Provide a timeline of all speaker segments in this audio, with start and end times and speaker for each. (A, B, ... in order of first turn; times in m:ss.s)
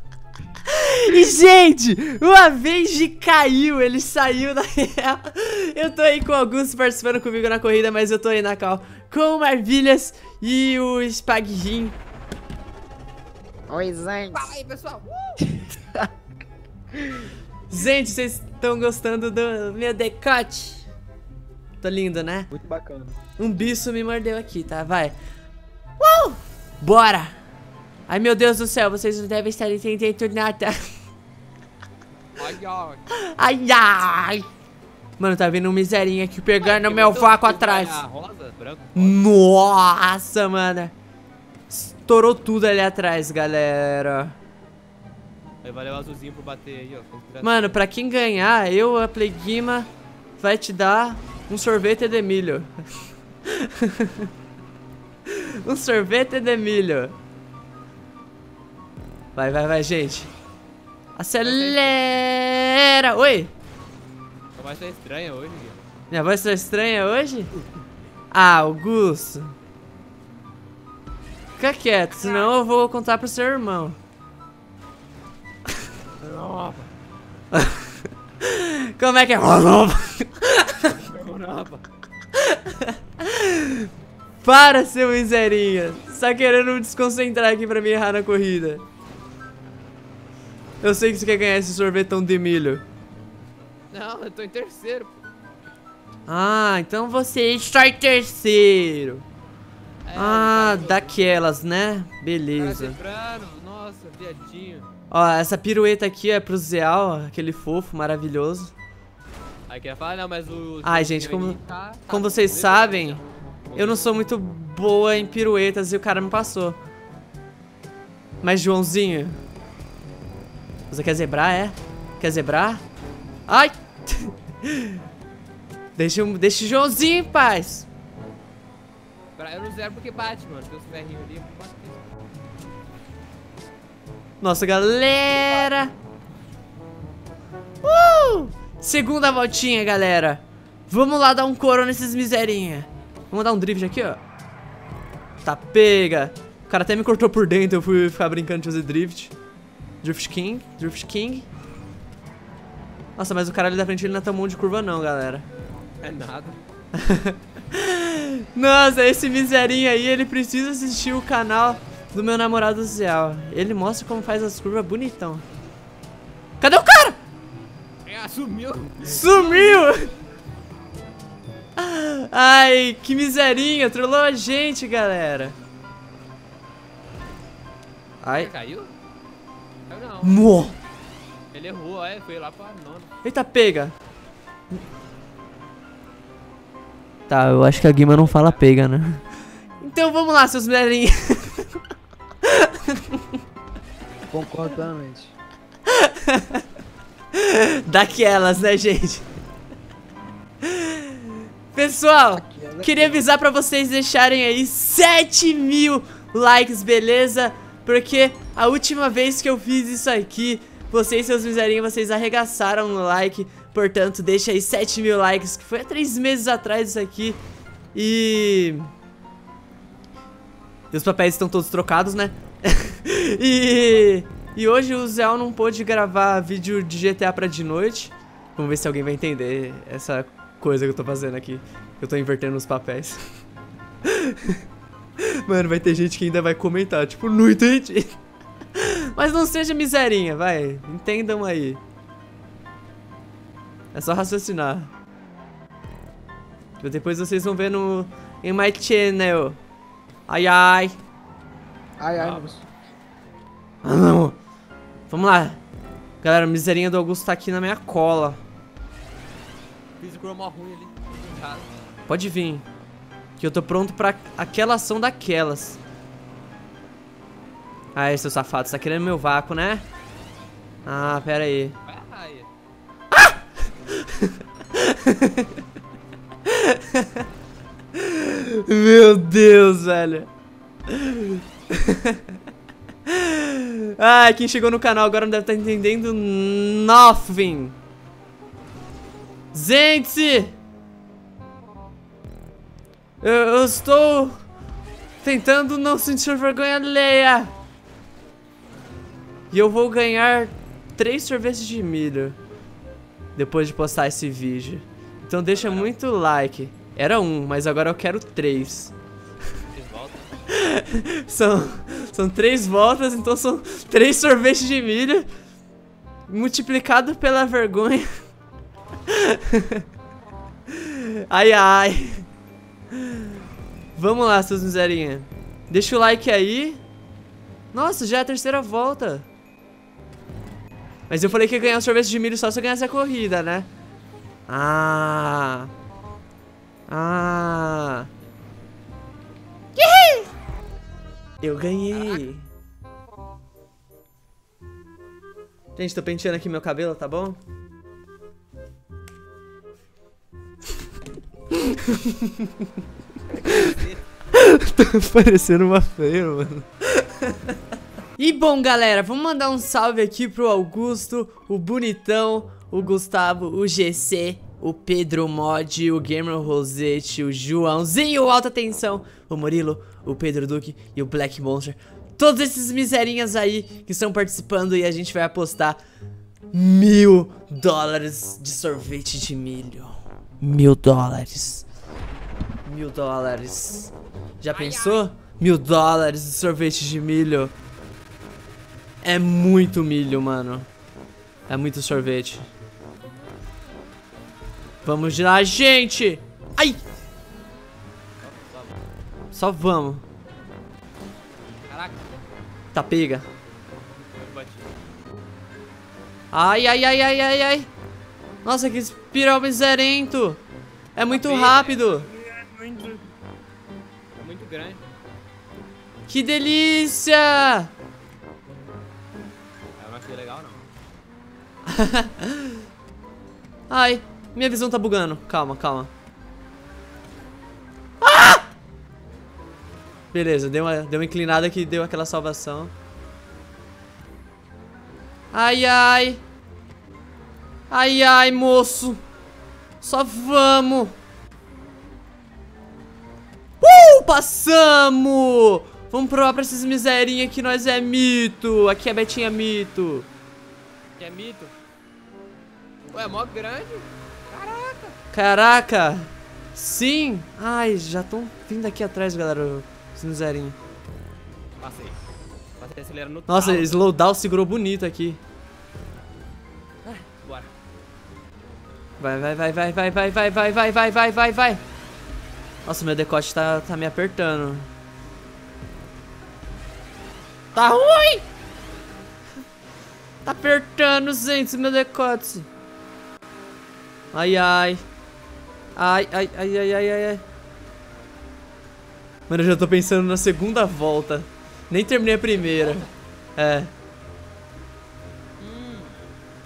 0:00.7-0:12.0 A
0:13.7-0:14.5 B
0:14.3-0:15.6 C
0:17.7-0:20.8 A
0:21.8-0:22.5 A
0:22.5-0:23.2 B
0:23.4-0:25.1 A
0:26.0-0:27.3 A
0:28.1-0:30.8 A
0:32.4-0:33.1 C
0:33.1-0:34.4 A
0:35.2-0:38.0 A
0:36.6-0:39.2 C
0:38.9-0:40.9 A
0:41.7-0:44.3 A
0:45.6-0:47.7 C
0:47.4-0:52.7 A
0:53.5-0:54.3 A
0:55.3-0:57.1 A
0:59.4-1:00.3 A
1:01.2-1:03.5 A
1:01.4-1:01.9 C
1:04.6-1:05.8 C
1:06.1-1:07.5 A
1:08.3-1:09.5 A
1:11.6-1:14.0 A
1:12.2-1:12.5 C
1:16.2-1:16.9 C
1:17.5-1:17.9 A
1:18.4-1:21.0 A
1:21.0-1:21.8 C
1:22.3-1:23.9 A
1:24.4-1:28.8 A
1:30.8-1:32.8 A
1:33.9-1:35.2 C
1:36.3-1:39.2 A
1:40.1-1:41.2 C
1:40.1-1:43.0 A
1:42.5-1:44.9 C
1:45.1-1:48.7 A
1:49.7-1:54.2 C
1:50.8-1:53.2 A
1:53.7-1:56.8 A
1:58.4-1:59.4 A
2:00.9-2:02.8 A
2:03.5-2:05.0 A
2:06.0-2:07.9 A
2:09.4-2:12.0 C
2:14.4-2:15.9 A
2:17.8-2:24.2 A
2:25.4-2:29.3 A
2:30.0-2:31.5 A
2:33.2-2:35.5 A
2:36.0-2:36.6 C
2:36.9-2:45.4 A
2:46.6-2:47.2 A
2:48.0-2:49.9 C
2:49.0-2:50.1 A
2:51.8-2:55.5 A
2:58.2-2:58.5 A
2:58.3-2:58.9 C
2:59.9-3:00.4 C
3:00.2-3:00.8 A
3:01.5-3:03.1 C
3:03.2-3:03.9 A
3:07.3-3:09.2 A
3:07.9-3:08.6 C
3:09.8-3:11.8 A
3:12.4-3:13.2 A
3:14.3-3:15.3 B
3:15.9-3:16.6 A
3:17.3-3:19.2 A
3:20.6-3:37.4 A
3:22.4-3:23.2 B
3:37.9-3:38.9 A
3:40.9-3:53.2 A
3:54.0-3:54.6 A
3:55.2-3:58.2 A
3:58.7-4:01.8 A
4:03.9-4:04.9 A
4:06.8-4:09.6 A
4:10.3-4:11.0 A
4:12.0-4:12.6 B
4:12.1-4:12.5 C
4:13.8-4:14.4 A
4:15.1-4:15.6 A
4:16.2-4:18.4 A
4:20.0-4:21.7 C
4:22.1-4:22.6 A
4:23.4-4:25.8 A
4:27.9-4:29.8 A
4:30.8-4:31.8 A
4:31.8-4:32.5 C
4:33.1-4:35.6 A
4:36.4-4:37.2 A
4:37.9-4:40.3 A
4:40.9-4:42.2 A
4:43.0-4:47.8 A
4:49.5-4:50.5 A
4:53.2-4:54.4 A
4:55.2-4:57.5 A
4:59.5-5:02.4 A
5:03.4-5:08.9 A
5:05.5-5:05.9 C
5:09.7-5:10.3 C
5:10.5-5:15.3 A
5:16.3-5:18.1 A
5:19.1-5:19.8 A
5:20.7-5:22.2 A
5:22.9-5:23.3 A
5:24.0-5:26.8 A
5:27.7-5:29.3 A
5:31.1-5:33.7 A
5:34.5-5:35.7 A
5:36.9-5:38.1 A
5:39.8-5:40.3 A
5:41.4-5:42.4 A
5:41.9-5:42.2 C
5:45.8-5:47.4 A
5:51.5-5:52.5 A
5:53.3-5:54.0 C
5:53.4-5:53.8 A
5:54.3-5:57.3 A
5:58.2-6:15.8 A
6:16.5-6:21.6 A
6:22.6-6:27.5 A
6:24.5-6:25.1 C
6:29.0-6:30.7 A
6:31.5-6:32.5 A
6:34.8-6:36.8 A
6:38.2-6:38.8 C
6:39.3-6:40.0 A
6:41.7-6:42.0 C
6:42.7-6:43.2 A
6:44.1-6:44.7 C
6:46.3-6:47.7 A
6:48.4-6:50.4 A
6:51.0-6:52.1 A
6:51.0-6:53.0 C
6:54.2-6:54.8 C
6:56.1-6:57.7 A
6:59.8-7:00.6 C
7:01.7-7:02.5 A
7:03.7-7:05.9 A
7:08.0-7:08.4 A
7:10.1-7:12.7 A
7:15.3-7:16.2 A
7:17.7-7:19.0 A
7:19.8-7:21.0 A
7:23.6-7:30.1 A
7:31.0-7:31.5 C
7:32.9-7:34.9 C
7:35.1-7:40.6 A
7:41.6-7:42.0 C
7:42.6-7:43.8 C
7:43.3-7:45.2 A
7:46.8-7:47.5 C
7:49.0-7:51.6 A
7:52.6-7:54.7 A
7:57.5-7:58.2 A
8:00.2-8:02.4 A
8:04.1-8:04.8 A
8:05.8-8:07.2 A
8:09.3-8:12.8 A
8:12.3-8:12.9 C
8:13.4-8:13.7 A
8:15.4-8:16.0 C